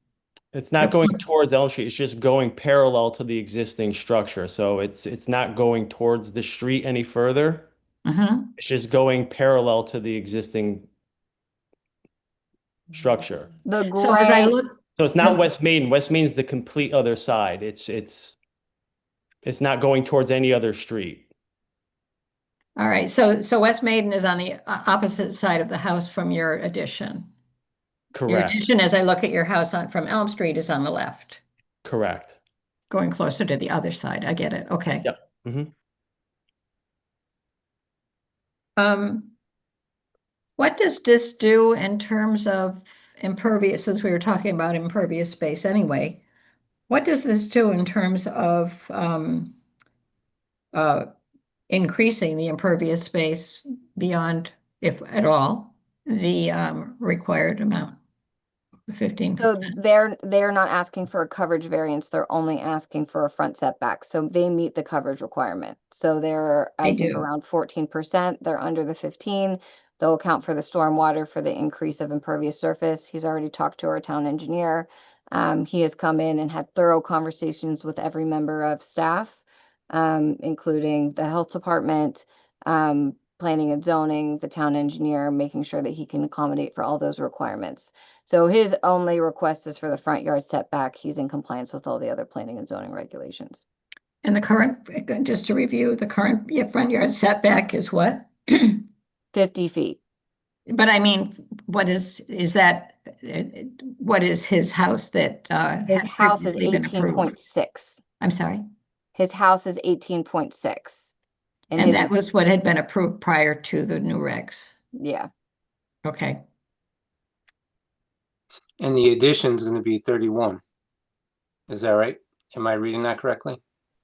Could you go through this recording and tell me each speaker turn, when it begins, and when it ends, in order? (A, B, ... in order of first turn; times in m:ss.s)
0:00.5-0:07.7 A
0:08.0-0:08.5 B
0:08.6-0:10.9 A
0:12.9-0:13.5 A
0:13.6-0:14.6 C
0:14.0-0:15.4 B
0:15.0-0:18.4 A
0:19.4-0:21.2 A
0:22.8-0:27.3 B
0:28.1-0:28.6 A
0:28.3-0:31.4 B
0:31.8-0:32.4 A
0:32.9-0:35.1 B
0:35.0-0:35.7 A
0:38.8-0:39.3 B
0:40.6-0:46.2 B
0:46.9-0:49.6 B
0:50.7-0:51.1 B
0:51.7-0:58.0 B
0:58.9-0:59.5 B
0:59.4-1:33.6 C
1:06.8-1:07.2 B
1:34.2-1:38.8 B
1:39.3-1:40.0 C
1:40.7-1:47.3 B
1:45.9-1:48.0 C
1:48.2-1:48.6 B
1:49.1-1:51.1 C
1:51.7-1:52.1 C
1:51.7-1:54.7 B
1:54.9-1:55.3 C
1:56.0-1:56.4 B
1:58.8-2:00.6 D
2:01.7-2:03.6 D